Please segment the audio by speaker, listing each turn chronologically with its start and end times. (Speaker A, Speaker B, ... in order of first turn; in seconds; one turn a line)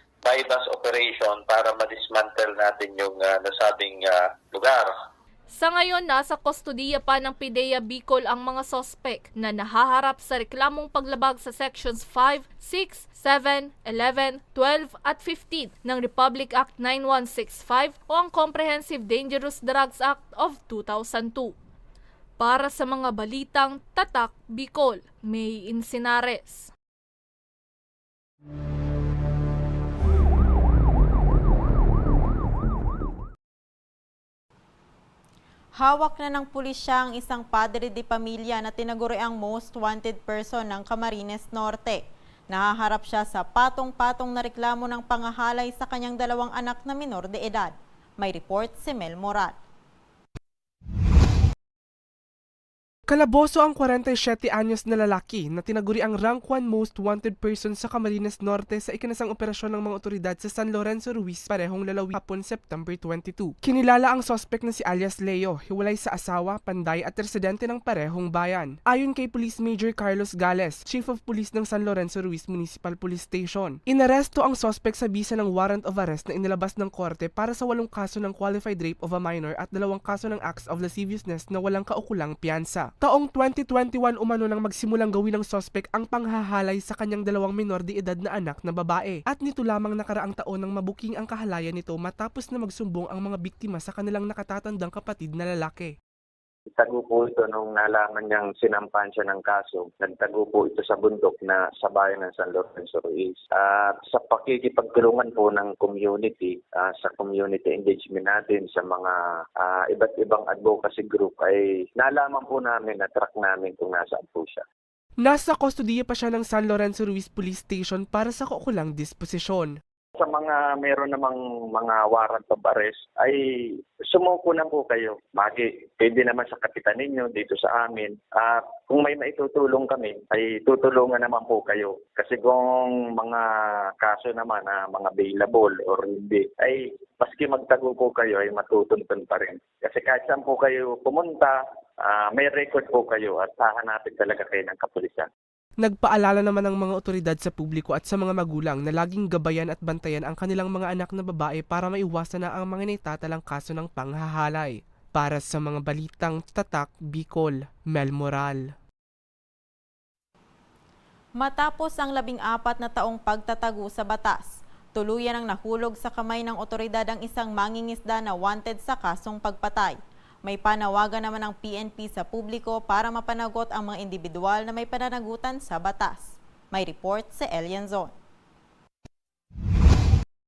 Speaker A: 0.2-4.9
Speaker B: 5.5-21.6
Speaker B: 22.4-26.7
Speaker C: 35.8-49.6
Speaker D: 53.1-95.9
Speaker E: 96.7-114.6
Speaker D: 115.2-119.7
Speaker E: 120.2-123.4
Speaker E: 124.1-133.5
Speaker E: 134.0-145.3
Speaker D: 145.8-158.6
Speaker C: 161.4-178.1